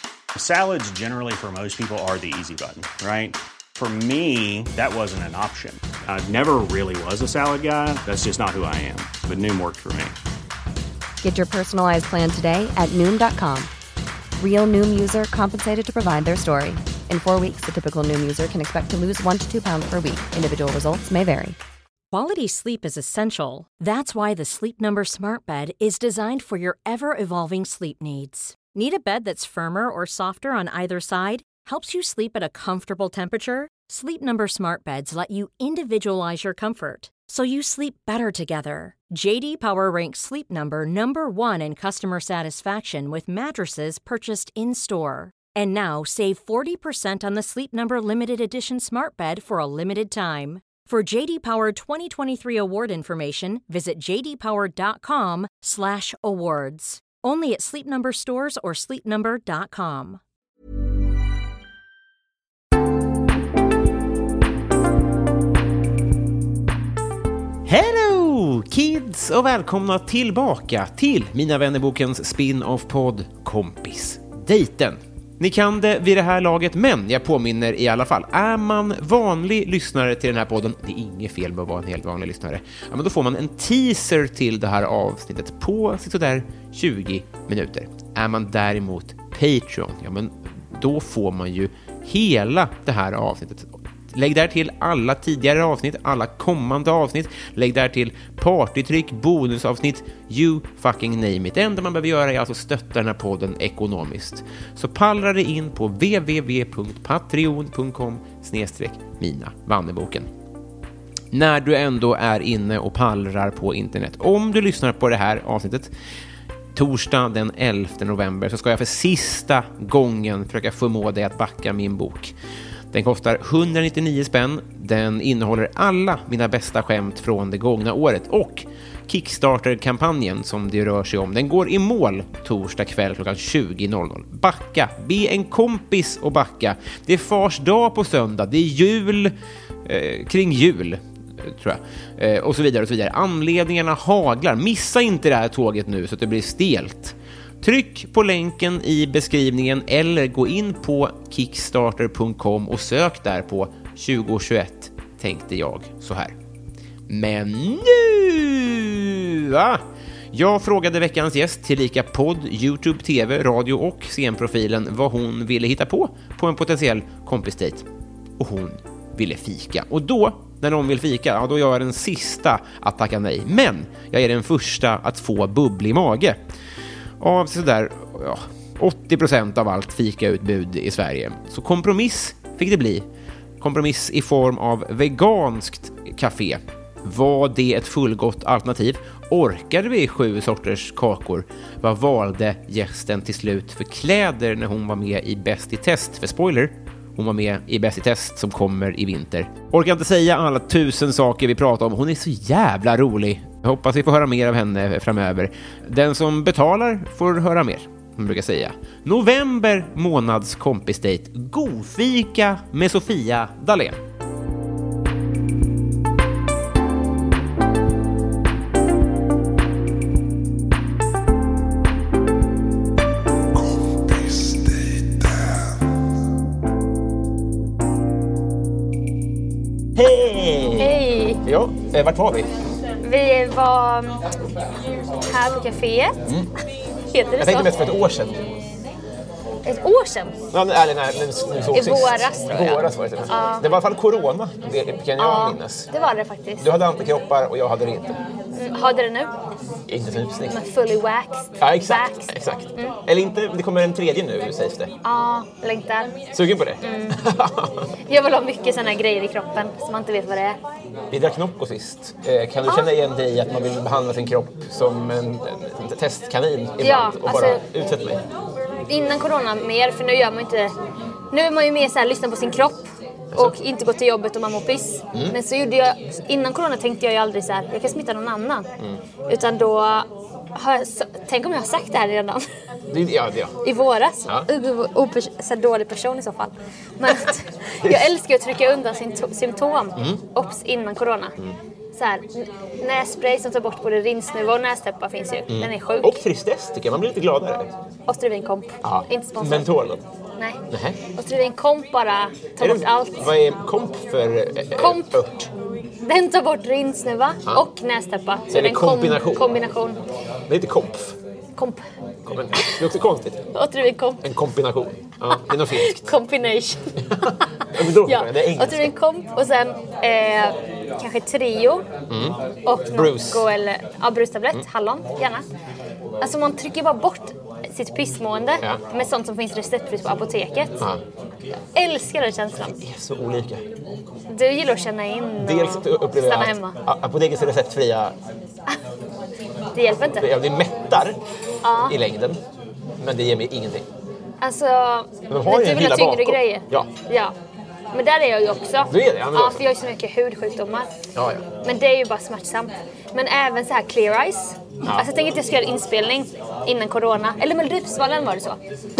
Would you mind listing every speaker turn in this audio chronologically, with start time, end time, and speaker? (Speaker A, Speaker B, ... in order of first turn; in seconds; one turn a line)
Speaker A: 0.3-10.2
Speaker B: 11.2-13.7
Speaker B: 14.4-21.6
Speaker C: 22.1-60.2
Speaker D: 67.7-110.3
Speaker D: 111.3-115.9
Speaker D: 116.8-122.3
Speaker D: 122.9-139.3
Speaker D: 139.8-156.3
Speaker D: 157.1-159.8
Speaker D: 160.3-167.8
Speaker D: 168.4-176.4
Speaker D: 177.2-183.0
Speaker D: 183.6-214.0
Speaker D: 229.9-232.5
Speaker E: 230.8-231.4
Speaker E: 233.0-234.2
Speaker E: 235.2-236.2
Speaker E: 237.1-237.7
Speaker D: 237.4-238.4
Speaker E: 239.6-240.3
Speaker D: 240.5-245.9
Speaker E: 241.7-243.7
Speaker E: 245.2-246.7
Speaker D: 246.6-248.2
Speaker E: 248.5-249.3
Speaker D: 249.9-250.6
Speaker E: 250.5-253.0
Speaker D: 251.6-254.9
Speaker E: 255.0-256.1
Speaker D: 256.3-257.9
Speaker E: 256.8-257.2
Speaker E: 258.1-260.6
Speaker D: 261.1-268.2
Speaker E: 266.8-267.6
Speaker E: 268.9-270.7
Speaker E: 271.3-278.7
Speaker E: 279.3-282.4
Speaker D: 282.9-283.5
Speaker E: 283.6-291.3
Speaker E: 291.9-296.2
Speaker D: 295.5-297.7
Speaker E: 298.1-299.7
Speaker D: 298.8-300.0
Speaker D: 300.7-301.0
Speaker E: 301.1-303.3
Speaker D: 302.6-305.5
Speaker E: 304.8-305.2
Speaker E: 306.0-310.0
Speaker D: 308.5-309.5
Speaker D: 310.5-311.1
Speaker D: 312.2-313.4
Speaker E: 313.5-314.2
Speaker D: 314.2-316.1
Speaker E: 315.3-317.3
Speaker D: 317.7-318.9
Speaker E: 318.0-321.8
Speaker D: 322.1-322.4
Speaker E: 322.6-325.4
Speaker D: 322.9-323.5
Speaker E: 326.2-330.9
Speaker E: 331.7-332.8
Speaker D: 332.8-333.6
Speaker E: 334.3-336.8
Speaker D: 335.4-338.1
Speaker E: 339.7-340.3
Speaker D: 340.2-341.2
Speaker E: 341.6-342.0
Speaker D: 341.9-342.4
Speaker D: 343.0-343.9
Speaker E: 344.4-347.3
Speaker D: 345.3-346.9
Speaker E: 347.9-350.9
Speaker D: 348.9-349.6
Speaker D: 351.1-351.4
Speaker E: 351.6-358.6